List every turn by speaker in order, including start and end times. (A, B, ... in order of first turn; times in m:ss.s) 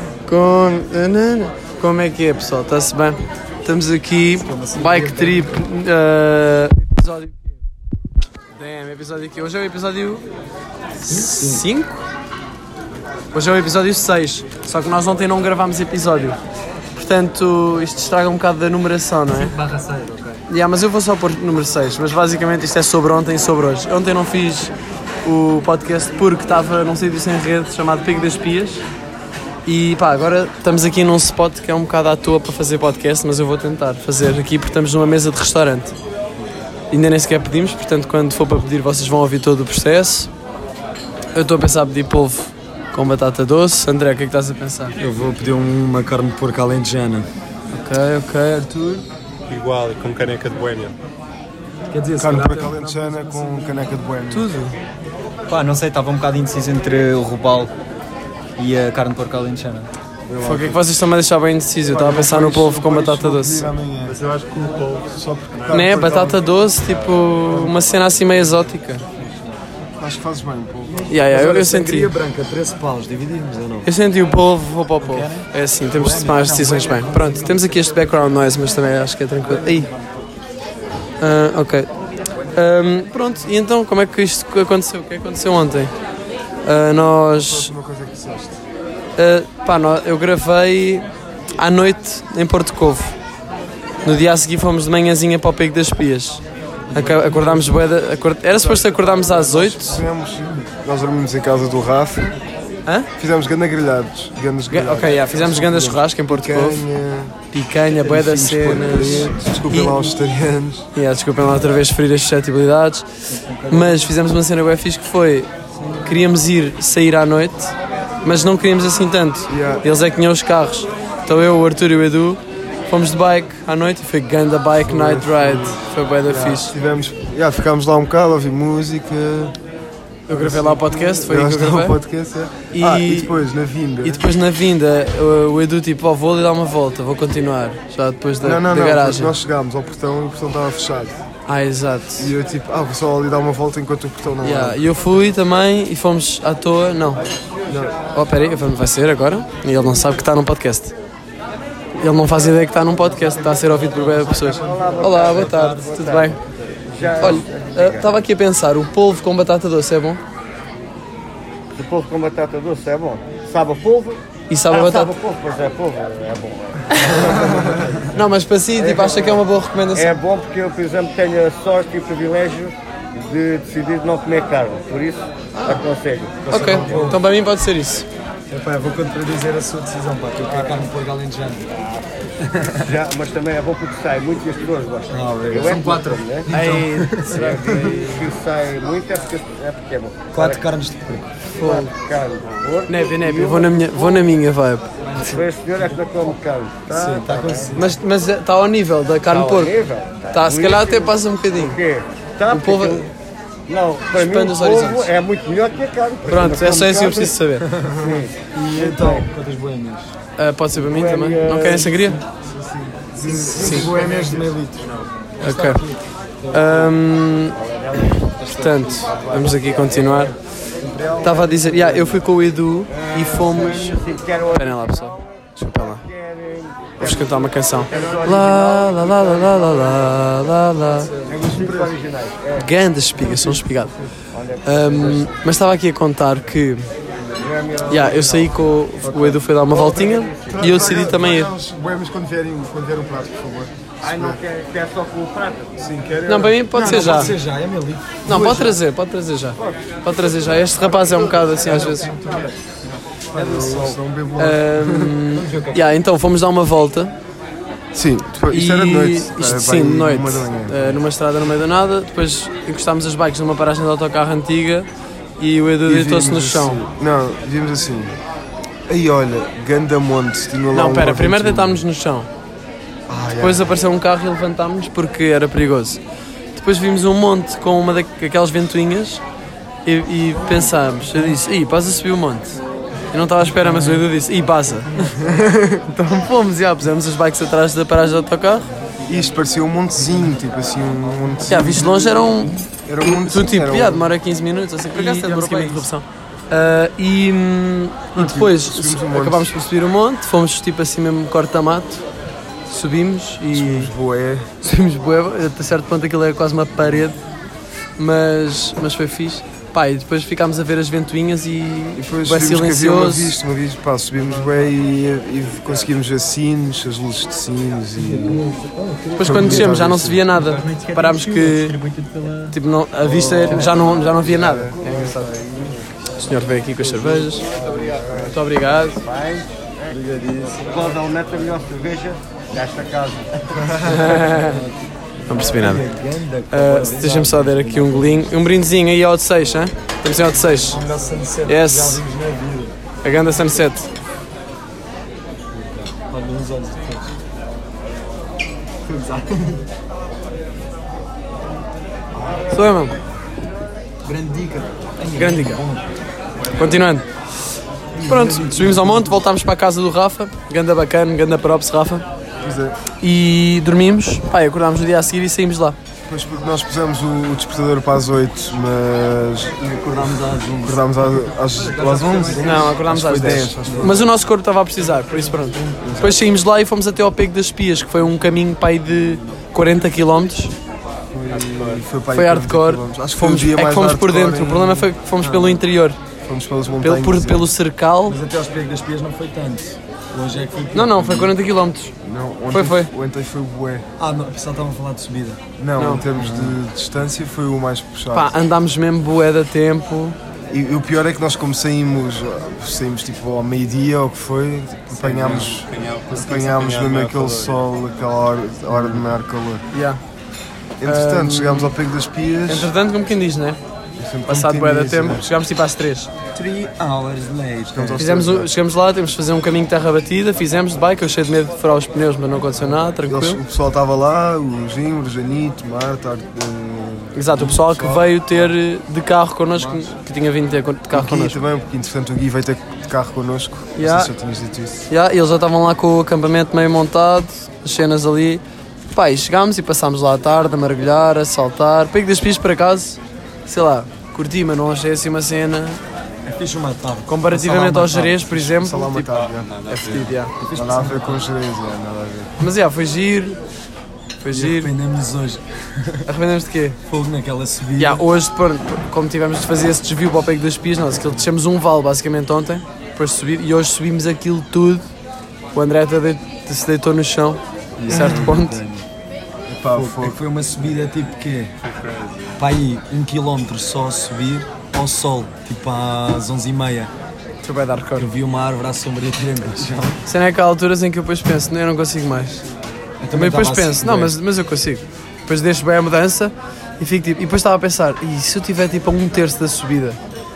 0:00.3-0:07.6 A
0:04.4-0:05.5 B
0:08.6-0:10.3 A
0:11.0-0:12.0 A
0:11.1-0:11.6 B
0:13.3-0:16.4 A
0:17.0-0:19.6 A
0:19.3-0:20.4 C
0:20.5-0:28.8 A
0:29.7-0:36.0 A
0:36.9-0:40.3 A
0:41.4-0:45.0 A
0:45.0-0:47.3 B
0:47.7-0:49.0 A
0:49.5-0:50.9 D
0:51.9-0:53.9 B
0:52.2-0:54.5 E
0:54.3-0:54.8 A
0:55.5-0:57.7 C
0:58.6-0:59.9 C
1:00.3-1:00.8 E
1:00.4-1:03.7 A
1:01.8-1:04.2 E
1:04.0-1:06.1 D
1:05.1-1:06.4 E
1:05.7-1:09.0 A
1:06.8-1:07.4 D
1:10.0-1:11.2 E
1:11.1-1:12.1 A
1:11.1-1:13.9 B
1:13.8-1:19.9 A
1:15.0-1:18.7 B
1:19.4-1:20.1 B
1:21.2-1:21.9 A
1:22.5-1:26.0 A
1:26.6-1:27.7 A
1:27.3-1:28.6 E
1:29.2-1:31.1 A
1:31.6-1:33.2 A
1:34.0-1:40.0 A
1:36.9-1:37.8 B
1:39.1-1:42.4 E
1:43.2-1:47.3 E
1:44.7-1:46.8 A
1:47.5-1:50.0 A
1:48.0-1:50.9 E
1:50.9-1:53.1 A
1:53.3-1:54.1 C
1:53.7-1:55.5 A
1:56.0-2:06.8 A
1:59.5-1:59.8 E
2:04.8-2:09.6 E
2:10.3-2:12.0 A
2:10.3-2:14.2 E
2:12.7-2:13.4 A
2:14.0-2:19.4 A
2:18.4-2:21.2 E
2:21.5-2:22.3 A
2:22.2-2:24.8 E
2:24.4-2:27.2 A
2:27.7-2:28.0 E
2:28.1-2:31.0 A
2:32.0-2:36.4 A
2:34.2-2:36.4 F
2:35.3-2:35.8 C
2:36.9-2:38.1 F
2:37.2-2:40.2 A
2:41.7-2:48.2 F
2:44.5-2:45.1 A
2:46.9-2:47.5 A
2:48.1-2:50.2 A
2:48.8-2:57.0 F
2:55.6-2:55.8 A
2:56.4-2:57.2 B
2:56.5-2:58.1 A
2:58.5-3:01.7 B
3:00.4-3:00.9 F
3:01.7-3:06.5 F
3:02.6-3:02.8 B
3:05.1-3:08.0 B
3:06.5-3:08.2 A
3:07.3-3:10.6 F
3:10.3-3:11.3 B
3:11.6-3:11.9 A
3:11.6-3:14.4 F
3:12.9-3:14.9 A
3:15.1-3:15.4 B
3:15.2-3:17.7 F
3:16.9-3:17.9 B
3:17.7-3:19.7 A
3:19.3-3:23.1 F
3:20.3-3:21.8 A
3:22.5-3:23.1 A
3:23.7-3:27.4 F
3:24.1-3:25.1 A
3:26.2-3:27.7 A
3:27.9-3:29.3 F
3:27.9-3:28.2 E
3:28.5-3:30.1 B
3:30.4-3:32.2 A
3:30.7-3:32.2 F
3:33.0-3:34.5 E
3:33.1-3:36.9 B
3:33.5-3:33.9 F
3:33.6-3:33.9 A
3:34.8-3:35.1 D
3:35.4-3:35.9 A
3:36.5-3:37.6 A
3:37.6-3:38.3 F
3:38.4-3:39.4 B
3:38.4-3:40.4 A
3:39.0-3:42.2 F
3:41.2-3:46.1 A
3:42.9-3:45.3 F
3:45.8-3:50.1 F
3:47.0-3:51.1 A
3:47.9-3:48.2 E
3:51.2-3:53.6 F
3:51.3-3:52.0 E
3:52.6-3:53.9 A
3:54.3-3:55.3 F
3:54.6-3:56.9 A
3:57.3-4:01.1 F
3:57.9-4:01.5 A
4:00.5-4:04.4 E
4:04.0-4:05.8 F
4:05.8-4:07.2 E
4:06.3-4:07.3 A
4:06.7-4:08.7 B
4:08.2-4:12.1 A
4:11.2-4:12.1 B
4:11.6-4:12.0 E
4:13.3-4:14.0 B
4:13.3-4:15.2 E
4:14.4-4:17.2 A
4:15.3-4:15.9 B
4:17.9-4:21.0 E
4:18.5-4:24.9 A
4:25.4-4:26.8 A
4:25.8-4:28.2 E
4:28.9-4:31.8 E
4:30.7-4:32.3 A
4:33.1-4:33.7 E
4:33.4-4:36.0 A
4:36.5-4:39.2 A
4:39.8-4:42.6 A
4:43.1-4:48.7 A
4:45.2-4:45.8 E
4:49.1-4:54.1 E
4:51.5-5:02.0 A
4:55.0-4:55.9 C
4:58.2-4:59.5 E
5:02.7-5:03.9 A
5:03.5-5:04.5 E
5:04.6-5:07.2 A
5:08.0-5:13.4 A
5:12.0-5:18.4 E
5:18.2-5:19.1 B
5:19.2-5:21.8 A
5:19.2-5:20.2 E
5:20.3-5:22.6 C
5:22.5-5:25.3 A
5:23.0-5:25.8 E
5:23.3-5:23.9 B
5:26.1-5:27.4 A
5:26.8-5:27.4 B
5:27.4-5:33.7 F
5:27.8-5:28.3 E
5:28.2-5:29.0 A
5:29.9-5:31.0 B
5:33.6-5:38.4 B
5:33.8-5:34.6 A
5:35.3-5:35.8 A
5:36.5-5:40.8 A
5:40.3-5:42.8 B
5:41.5-5:42.0 A
5:43.0-5:43.9 A
5:45.5-5:47.1 B
5:48.9-5:49.6 C
5:52.5-5:53.0 A
5:54.0-5:55.5 C
5:55.0-5:55.8 B
5:55.2-5:55.6 A
5:56.6-5:57.1 A
5:57.9-5:59.2 B
5:58.0-6:02.1 A
6:02.4-6:02.8 E
6:03.0-6:05.8 A
6:06.1-6:09.6 E
6:09.6-6:10.8 B
6:10.6-6:14.1 E
6:11.6-6:14.0 B
6:12.4-6:20.6 A
6:15.6-6:16.1 B
6:15.8-6:16.2 E
6:21.1-6:24.9 E
6:21.5-6:21.8 D
6:22.1-6:26.0 A
6:25.2-6:25.6 B
6:26.2-6:27.5 E
6:26.8-6:28.2 A
6:28.1-6:31.4 B
6:30.7-6:31.9 A
6:32.0-6:33.8 E
6:32.5-6:32.9 A
6:34.0-6:35.4 B
6:35.6-6:38.3 E
6:35.8-6:36.0 A
6:36.1-6:36.6 B
6:38.1-6:40.2 A
6:40.5-6:49.6 E
6:44.9-6:47.6 D
6:49.7-6:50.0 A
6:50.8-6:52.7 E
6:50.8-6:51.7 A
6:52.5-6:53.6 A
6:54.0-6:55.3 E
6:54.3-6:56.1 A
6:56.3-6:58.1 B
6:57.7-6:58.5 E
6:58.0-7:03.4 A
7:03.0-7:08.3 E
7:07.2-7:11.4 A
7:09.6-7:09.9 B
7:10.9-7:14.9 E
7:13.8-7:14.1 A
7:14.9-7:25.8 A
7:26.3-7:28.2 B
7:27.1-7:29.1 A
7:28.3-7:29.5 E
7:29.1-7:30.2 D
7:29.7-7:30.3 A
7:30.4-7:31.2 B
7:30.6-7:32.4 E
7:32.4-7:33.4 A
7:34.2-7:34.7 A
7:34.3-7:36.0 B
7:36.0-7:36.8 A
7:36.9-7:38.0 B
7:37.8-7:44.8 A
7:45.5-7:48.6 A
7:47.8-7:48.9 B
7:47.9-7:48.3 E
7:49.5-7:50.2 E
7:49.7-7:51.5 B
7:51.6-7:52.4 D
7:52.4-7:56.9 B
7:57.4-7:58.1 A
7:58.0-8:00.0 B
8:00.0-8:02.5 A
8:03.0-8:04.2 B
8:03.1-8:10.0 A